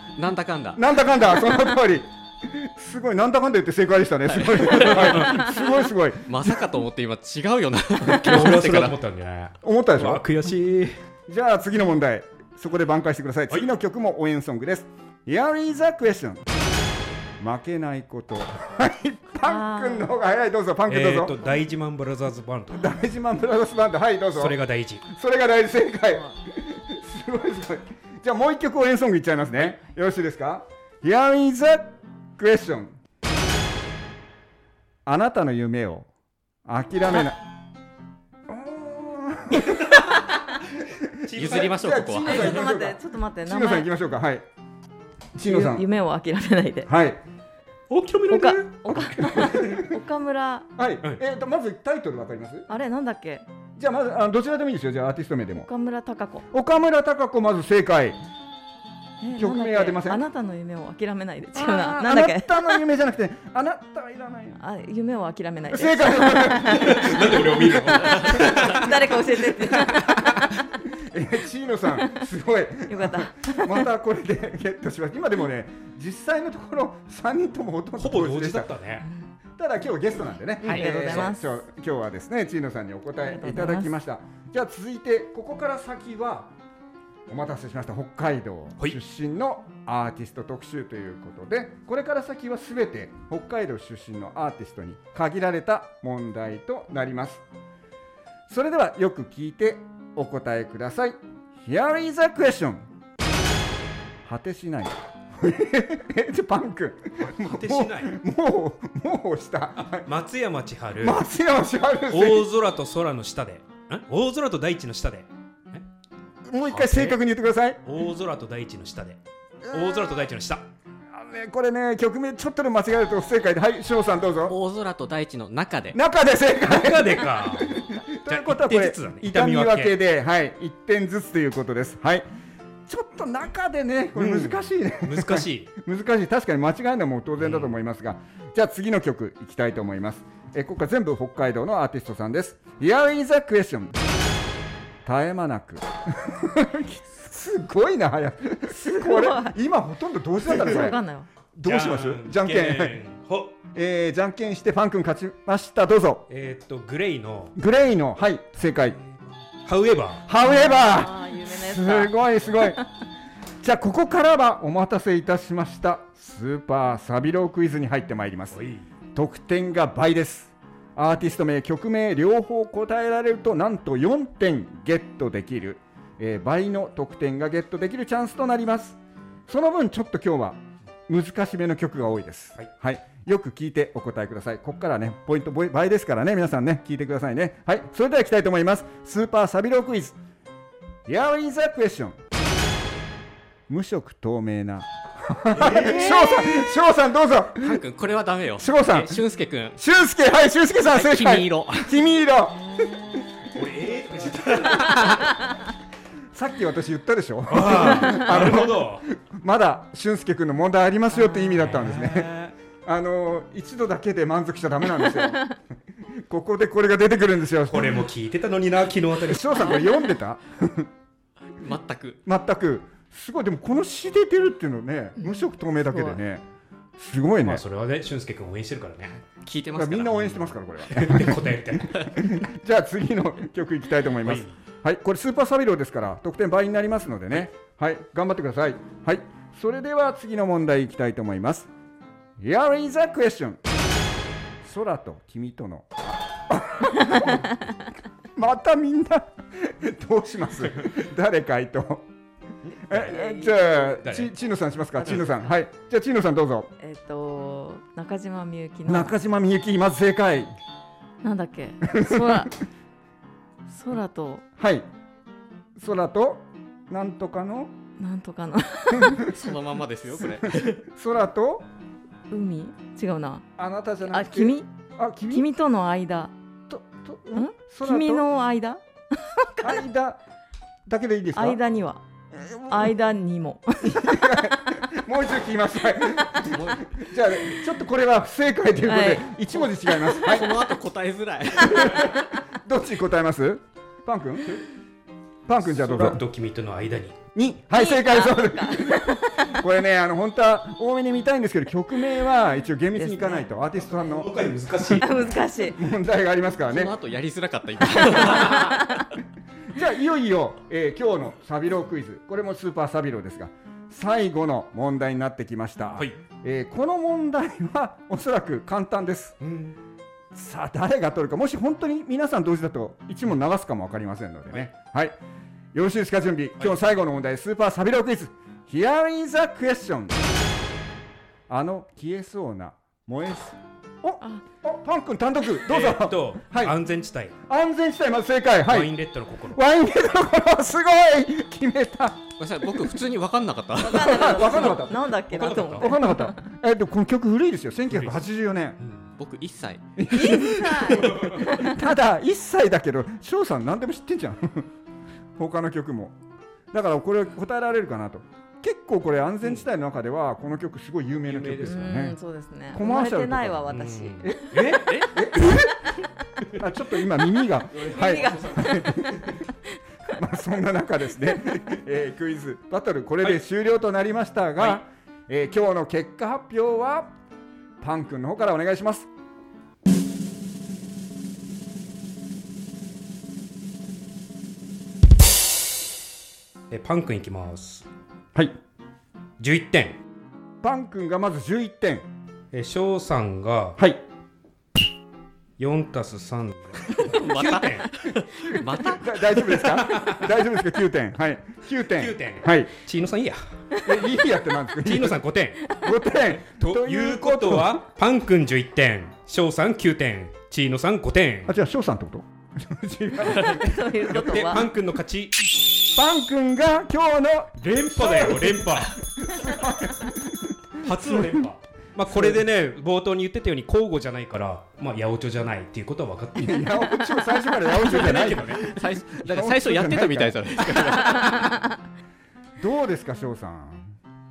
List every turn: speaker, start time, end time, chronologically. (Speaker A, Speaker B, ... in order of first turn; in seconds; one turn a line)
Speaker A: 0.1-0.8
Speaker B: 0.7-6.6
Speaker A: 4.3-9.0
Speaker C: 5.0-5.3
Speaker C: 8.1-11.0
Speaker B: 9.6-10.2
Speaker B: 11.3-16.4
Speaker B: 17.4-21.4
Speaker D: 19.4-20.1
Speaker C: 20.9-22.9
Speaker B: 22.7-33.0
Speaker C: 24.3-25.0
Speaker B: 35.0-36.1
Speaker B: 36.6-37.4
Speaker B: 38.5-40.2
Speaker B: 40.8-44.4
Speaker C: 41.2-41.8
Speaker A: 41.3-42.6
Speaker D: 42.2-43.9
Speaker B: 45.3-45.9
Speaker D: 45.5-46.9
Speaker B: 46.9-47.2
Speaker C: 47.9-49.8
Speaker D: 48.3-50.7
Speaker B: 49.3-49.9
Speaker B: 50.8-52.7
Speaker D: 52.7-53.5
Speaker B: 53.8-55.7
Speaker D: 55.5-56.5
Speaker B: 56.5-58.2
Speaker D: 59.2-62.8
Speaker B: 59.3-60.2
Speaker B: 61.5-64.6
Speaker D: 64.6-70.5
Speaker B: 65.7-69.1
Speaker C: 66.7-68.9
Speaker C: 70.0-70.4
Speaker B: 70.9-78.8
Speaker D: 72.9-73.8
Speaker C: 78.0-79.1
Speaker B: 79.6-86.5
Speaker C: 80.6-81.3
Speaker D: 80.6-81.4
Speaker D: 83.2-83.9
Speaker B: 87.3-97.4
Speaker B: 98.5-102.9
Speaker B: 104.2-110.1
Speaker C: 107.2-108.2
Speaker C: 109.8-111.2
Speaker B: 111.0-112.5
Speaker C: 112.1-115.8
Speaker B: 116.5-117.8
Speaker C: 116.7-117.2
Speaker C: 117.8-120.7
Speaker B: 119.7-120.0
Speaker B: 121.1-124.5
Speaker A: 124.5-126.0
Speaker B: 125.9-132.2
Speaker C: 126.7-129.9
Speaker B: 132.9-144.0
Speaker C: 134.2-135.7
Speaker C: 137.4-137.7
Speaker B: 145.0-151.0
Speaker D: 148.7-149.6
Speaker D: 150.5-151.3
Speaker B: 151.5-153.0
Speaker C: 151.6-153.6
Speaker B: 153.7-156.2
Speaker C: 156.3-157.5
Speaker B: 157.6-159.0
Speaker C: 159.6-160.2
Speaker B: 160.2-162.8
Speaker D: 160.4-162.7
Speaker B: 163.6-190.2
Speaker C: 168.5-168.9
Speaker B: 191.1-192.2
Speaker B: 193.7-197.8
Speaker C: 195.5-196.1
Speaker A: 195.6-196.6
Speaker A: 197.6-199.8
Speaker B: 198.6-199.2
Speaker B: 199.8-203.4
Speaker A: 200.9-201.9
Speaker D: 202.7-203.2
Speaker C: 203.5-205.2
Speaker B: 204.1-204.9
Speaker A: 204.7-205.2
Speaker B: 206.3-212.3
Speaker C: 207.5-209.1
Speaker D: 211.2-211.6
Speaker C: 211.6-212.5
Speaker B: 212.8-215.6
Speaker B: 216.1-218.1
Speaker C: 217.7-219.8
Speaker B: 219.2-220.9
Speaker D: 219.7-220.1
Speaker A: 221.6-222.2
Speaker B: 222.2-226.4
Speaker D: 225.2-226.2
Speaker B: 227.0-227.6
Speaker C: 227.4-229.2
Speaker A: 229.4-231.0
Speaker B: 229.7-241.7
Speaker C: 230.9-232.1
Speaker C: 234.2-234.5
Speaker B: 242.4-243.6
Speaker B: 244.6-247.6
Speaker B: 248.3-252.1
Speaker C: 252.6-254.3
Speaker B: 252.9-256.7
Speaker D: 253.0-254.0
Speaker D: 256.8-259.1
Speaker B: 258.8-260.5
Speaker D: 261.2-262.6
Speaker B: 261.9-262.5
Speaker D: 263.7-264.4
Speaker B: 264.6-264.9
Speaker B: 265.8-267.7
Speaker D: 268.0-269.3
Speaker B: 268.9-269.4
Speaker A: 269.2-270.8
Speaker B: 270.4-271.7
Speaker D: 272.3-273.4
Speaker B: 273.6-275.5
Speaker D: 274.1-274.7
Speaker D: 275.3-276.3
Speaker B: 276.7-278.3
Speaker D: 277.3-279.8
Speaker B: 279.6-280.2
Speaker B: 280.9-281.6
Speaker D: 281.4-282.0
Speaker B: 282.3-282.9
Speaker D: 282.7-284.4
Speaker B: 283.8-290.6
Speaker A: 286.4-286.9
Speaker D: 288.8-289.3
Speaker A: 289.5-292.3
Speaker B: 291.6-294.6
Speaker B: 295.4-296.2
Speaker C: 295.6-297.2
Speaker B: 297.3-304.9
Speaker D: 297.7-299.5
Speaker D: 303.0-303.5
Speaker C: 303.9-305.1
Speaker D: 304.9-305.8
Speaker B: 305.6-306.9
Speaker A: 306.6-308.8
Speaker D: 307.9-309.1
Speaker B: 308.0-308.5
Speaker B: 309.7-319.4
Speaker C: 319.4-319.8
Speaker B: 320.3-325.2
Speaker B: 325.7-330.3
Speaker B: 331.5-336.8
Speaker C: 335.6-337.3
Speaker B: 337.4-339.0
Speaker C: 338.7-339.6
Speaker B: 339.5-342.3
Speaker A: 342.4-344.7
Speaker D: 343.8-346.4
Speaker B: 343.8-348.8
Speaker C: 345.3-346.0
Speaker C: 347.9-348.2
Speaker C: 348.8-349.1
Speaker A: 349.2-350.0
Speaker B: 350.0-354.7
Speaker D: 350.1-351.9
Speaker C: 351.0-351.4
Speaker B: 355.4-356.1
Speaker B: 356.7-362.2
Speaker C: 361.2-362.0
Speaker D: 361.6-364.4
Speaker B: 362.7-365.9
Speaker C: 363.7-365.6
Speaker A: 364.9-365.2
Speaker B: 366.5-369.3
Speaker C: 367.7-369.3
Speaker D: 367.8-369.1
Speaker B: 370.1-377.1
Speaker B: 377.8-379.1
Speaker C: 386.7-387.9
Speaker C: 389.4-390.0
Speaker B: 390.6-392.1
Speaker C: 392.5-393.8
Speaker B: 393.8-394.0
Speaker C: 395.6-397.9
Speaker A: 396.8-400.0
Speaker B: 398.3-402.7
Speaker C: 399.8-400.3
Speaker C: 401.9-403.4
Speaker B: 403.8-407.8
Speaker C: 404.8-405.6
Speaker C: 406.4-411.5
Speaker B: 411.4-414.1
Speaker D: 413.2-414.7
Speaker C: 414.1-415.5
Speaker B: 415.8-421.5
Speaker C: 417.6-419.0
Speaker C: 420.8-426.7
Speaker B: 422.1-422.4
Speaker B: 426.4-430.9
Speaker A: 427.6-431.6
Speaker D: 431.1-431.5
Speaker B: 432.6-433.9